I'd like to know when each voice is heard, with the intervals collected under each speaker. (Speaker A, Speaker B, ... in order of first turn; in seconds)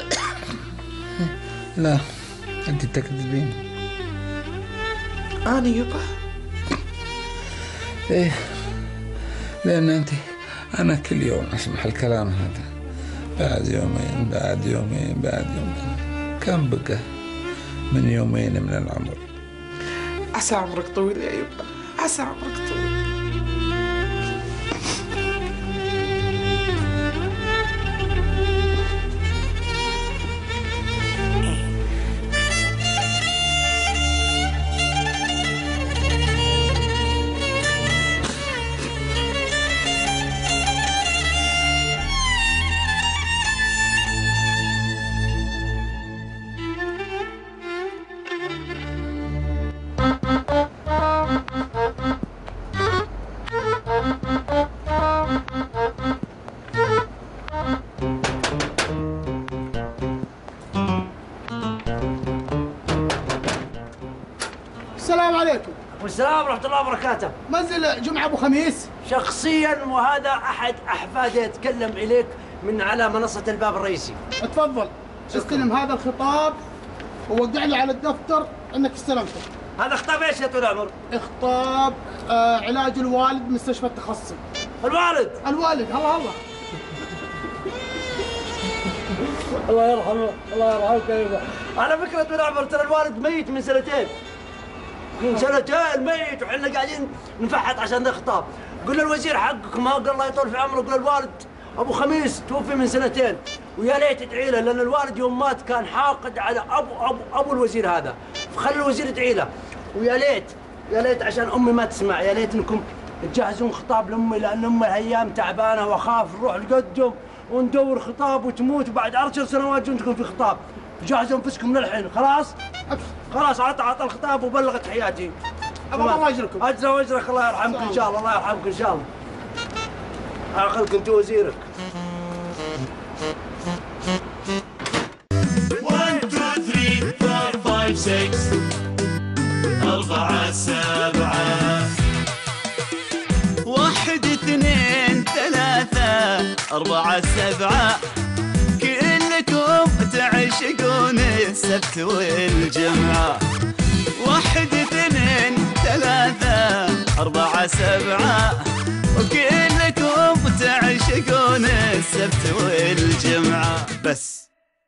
Speaker A: 1.2-2.0, 2.7-3.6, 8.1-8.6, 9.6-10.2, 10.8-12.7, 13.4-17.0, 17.9-19.2
Speaker B: 5.5-6.0, 20.4-22.9
Speaker C: 65.0-65.8, 67.5-68.9, 74.4-76.6, 77.3-79.5, 81.1-84.4, 85.4-86.4, 125.9-126.6, 127.7-128.0
Speaker D: 65.9-67.3, 69.0-74.2, 75.3-75.7, 79.8-80.9, 84.8-85.4, 89.6-94.1, 95.2-122.5, 123.3-125.3, 125.9-129.1, 130.5-131.6
Speaker E: 135.8-138.4, 140.1-141.8
Speaker F: 139.8-141.7, 143.7-148.0, 148.8-153.4, 154.2-164.4